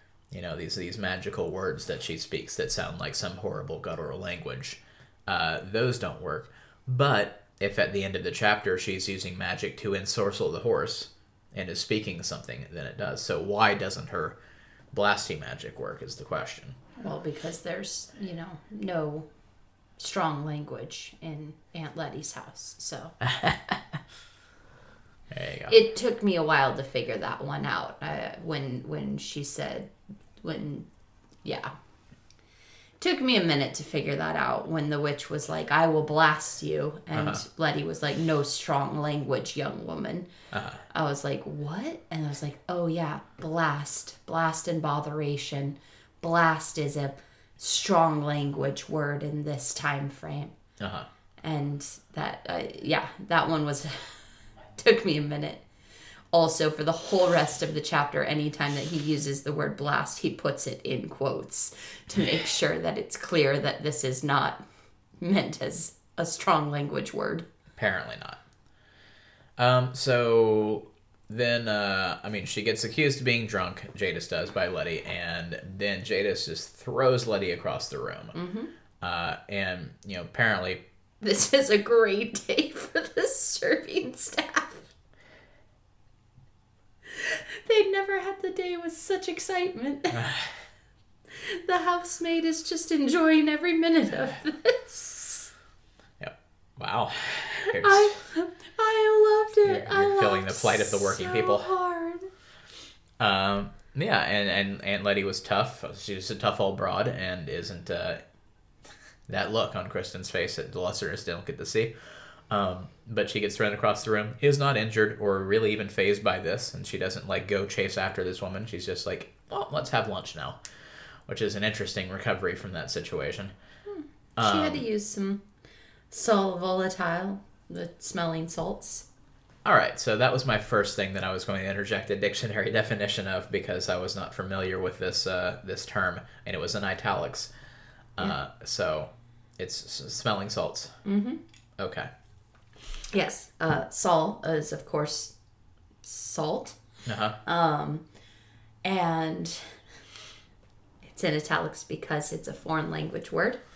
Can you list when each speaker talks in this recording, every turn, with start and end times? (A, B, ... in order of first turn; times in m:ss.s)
0:00.3-0:14.4 A
0:14.9-0:16.8 A
0:17.0-0:19.3 B
0:20.0-0:23.1 B
0:23.2-0:23.8 A
0:25.3-0:25.7 A
0:25.7-0:30.9 B
0:31.4-0:31.7 B
0:33.0-0:40.3 B
0:37.1-0:37.4 A
0:40.5-0:40.8 A
0:40.9-0:50.5 B
0:50.8-0:51.1 A
0:51.4-0:54.2 B
0:54.8-0:55.6 B
0:56.3-1:04.6 B
1:05.2-1:07.5 B
1:07.8-1:08.4 A
1:09.6-1:18.4 A
1:18.3-1:18.7 B
1:19.0-1:20.8 A
1:21.2-1:24.9 B
1:27.1-1:30.3 B
1:30.1-1:30.5 A
1:31.3-1:35.5 B
1:36.2-1:38.1 A
1:37.6-1:42.3 B
1:39.6-1:41.7 A
1:43.2-1:48.2 A
1:49.3-1:51.9 A
1:52.5-2:00.6 A
2:01.3-2:03.5 A
2:03.9-2:05.4 B
2:04.4-2:04.8 A
2:06.1-2:09.0 B
2:09.6-2:17.5 A
2:18.2-2:20.9 A
2:21.0-2:21.4 B
2:21.8-2:22.1 A
2:23.1-2:25.3 B
2:26.0-2:26.8 B
2:27.0-2:27.4 A
2:27.4-2:28.0 B
2:28.8-2:29.8 B
2:31.0-2:33.6 B